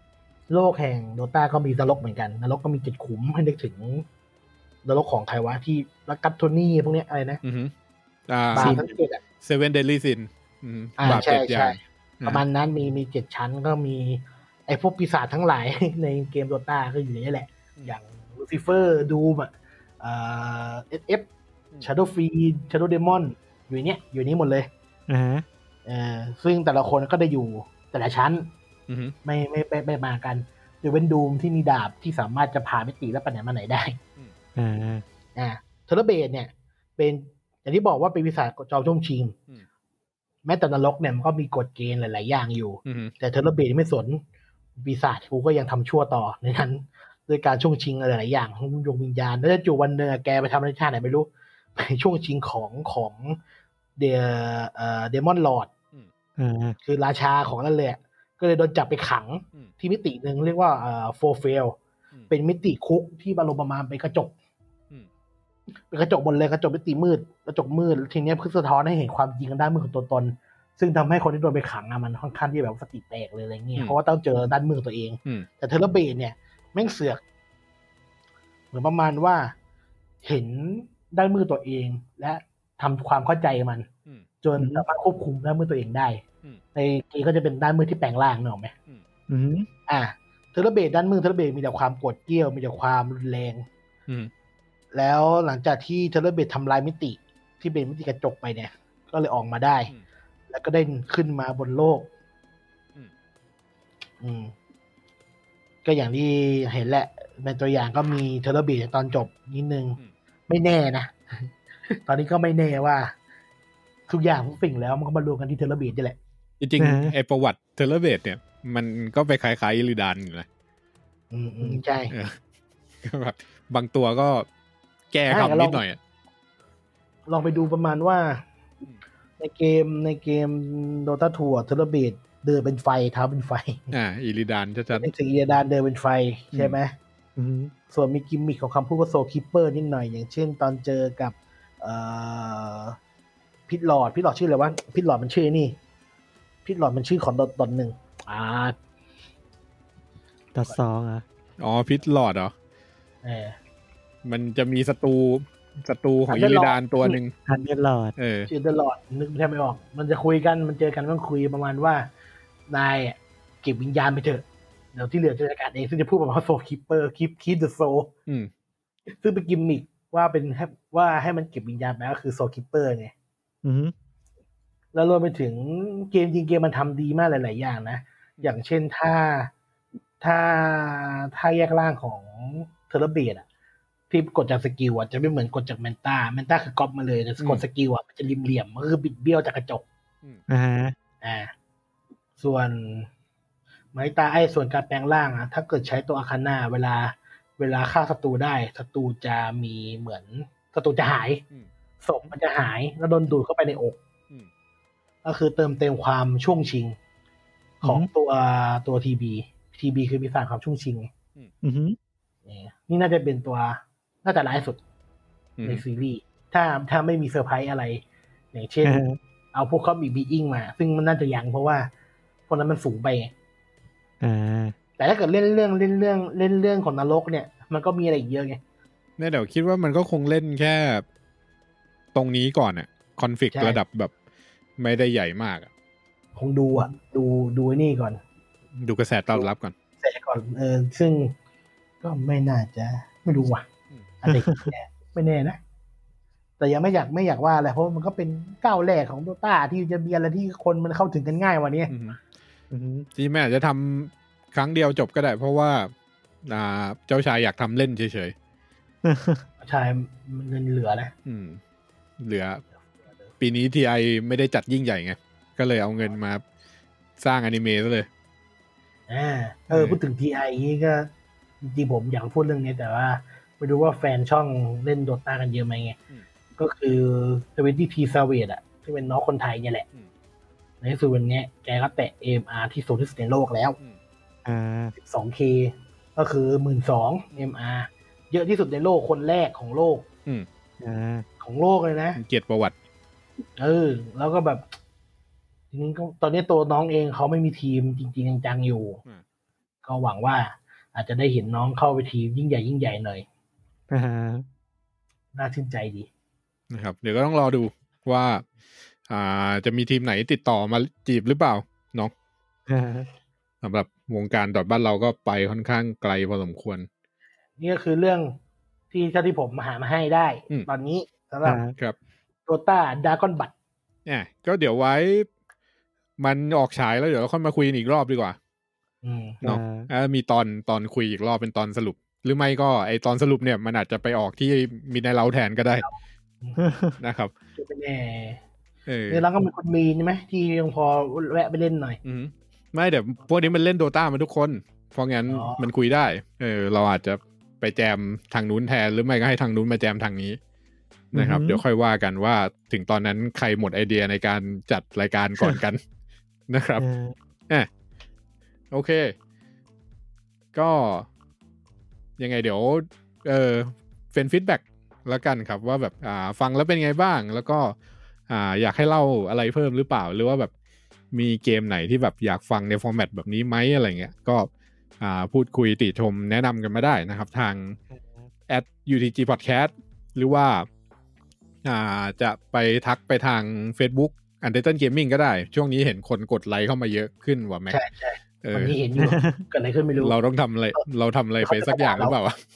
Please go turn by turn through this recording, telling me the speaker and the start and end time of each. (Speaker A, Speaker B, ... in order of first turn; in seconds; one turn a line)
Speaker A: 0.5-4.0
Speaker A: 4.8-7.4
Speaker B: 7.4-7.7
Speaker B: 8.3-8.8
Speaker A: 8.5-9.2
Speaker C: 8.6-8.9
Speaker B: 9.4-12.4
Speaker A: 11.0-21.3
Speaker A: 21.8-24.7
Speaker C: 25.1-25.4
Speaker A: 25.9-28.5
Speaker B: 28.9-29.1
Speaker A: 29.2-34.0
Speaker C: 34.6-35.0
Speaker A: 35.4-39.4
Speaker A: 40.5-44.2
Speaker B: 42.9-43.1
Speaker A: 44.8-53.4
Speaker A: 54.0-55.7
Speaker C: 56.4-56.8
Speaker A: 56.8-61.8
Speaker A: 62.3-64.3
Speaker A: 65.9-77.2
Speaker A: 78.7-79.5
Speaker A: 80.2-83.9
Speaker A: 84.4-86.2
Speaker C: 84.6-84.8
Speaker A: 86.8-88.7
Speaker C: 89.3-89.7
Speaker A: 89.9-93.7
Speaker A: 94.9-99.9
Speaker A: 100.5-102.1
Speaker A: 104.2-104.5
Speaker A: 105.8-113.1
Speaker A: 114.1-116.2
Speaker B: 116.6-120.5
Speaker C: 116.8-117.1
Speaker A: 121.3-122.1
Speaker B: 122.1-122.4
Speaker B: 123.0-124.5
Speaker B: 125.1-126.0
Speaker A: 125.3-125.8
Speaker A: 127.3-128.4
Speaker A: 129.4-133.9
Speaker B: 133.9-135.1
Speaker A: 134.9-136.9
Speaker B: 136.5-136.8
Speaker C: 137.4-137.7
Speaker A: 137.9-143.0
Speaker A: 143.7-145.8
Speaker A: 146.6-148.8
Speaker C: 150.5-151.2
Speaker B: 151.6-152.5
Speaker A: 153.2-153.6
Speaker B: 154.2-157.3
Speaker A: 156.3-157.2
Speaker C: 157.5-158.1
Speaker B: 158.2-158.5
Speaker A: 158.5-162.1
Speaker A: 162.7-168.1
Speaker A: 169.2-173.1
Speaker C: 173.6-173.9
Speaker A: 174.9-179.5
Speaker A: 180.2-183.4
Speaker A: 184.1-189.8
Speaker C: 190.5-190.9
Speaker A: 191.2-191.5
Speaker A: 192.4-193.1
Speaker A: 193.9-201.4
Speaker A: 202.0-204.0
Speaker A: 205.2-206.9
Speaker A: 207.8-211.1
Speaker C: 207.8-208.1
Speaker C: 211.6-212.0
Speaker A: 212.4-214.8
Speaker B: 215.6-215.8
Speaker A: 215.6-218.0
Speaker A: 218.5-221.9
Speaker C: 218.8-219.2
Speaker A: 222.5-223.3
Speaker C: 224.2-224.8
Speaker A: 225.0-228.6
Speaker B: 229.2-231.1
Speaker B: 232.1-234.1
Speaker A: 233.5-233.8
Speaker B: 234.8-235.7
Speaker A: 236.4-238.2
Speaker B: 238.8-239.7
Speaker A: 240.0-241.3
Speaker A: 242.0-243.6
Speaker A: 244.2-245.6
Speaker C: 244.3-244.7
Speaker A: 246.6-251.9
Speaker B: 251.9-252.2
Speaker C: 252.7-253.1
Speaker B: 253.1-255.9
Speaker B: 256.4-258.3
Speaker C: 259.0-259.4
Speaker A: 259.6-261.1
Speaker B: 261.3-261.6
Speaker B: 262.2-262.6
Speaker B: 263.4-266.4
Speaker B: 267.2-268.1
Speaker A: 269.1-271.1
Speaker B: 269.7-270.0
Speaker A: 271.6-276.0
Speaker A: 276.6-279.9
Speaker A: 280.8-283.8
Speaker C: 284.4-284.9
Speaker A: 285.0-290.1
Speaker C: 290.8-291.2
Speaker A: 291.4-292.2
Speaker B: 292.2-292.8
Speaker A: 293.6-294.7
Speaker A: 295.7-299.0
Speaker A: 299.9-303.2
Speaker C: 303.9-304.4
Speaker A: 305.4-306.1
Speaker B: 306.7-308.4
Speaker B: 309.1-312.1
Speaker C: 312.7-313.1
Speaker B: 313.6-316.9
Speaker A: 317.6-318.3
Speaker A: 318.9-321.6
Speaker C: 321.4-321.7
Speaker A: 322.5-323.5
Speaker B: 324.1-325.3
Speaker B: 326.2-328.4
Speaker A: 329.0-329.4
Speaker B: 329.4-335.9
Speaker C: 329.4-329.9
Speaker C: 336.6-337.0
Speaker B: 337.0-337.3
Speaker A: 337.6-338.4
Speaker B: 338.9-339.2
Speaker A: 339.1-342.0
Speaker B: 342.1-350.4
Speaker A: 345.3-345.7
Speaker B: 351.1-355.8
Speaker C: 351.1-351.6
Speaker B: 356.5-356.9
Speaker C: 356.8-357.1
Speaker B: 358.7-359.1
Speaker B: 360.5-361.1
Speaker B: 362.2-367.8
Speaker B: 368.3-370.5
Speaker B: 371.1-374.5
Speaker B: 375.0-377.8
Speaker C: 377.9-378.3
Speaker B: 378.5-380.7
Speaker B: 381.6-387.8
Speaker A: 387.7-390.1
Speaker B: 388.4-388.7
Speaker C: 389.0-389.4
Speaker B: 390.0-392.4
Speaker A: 391.4-392.2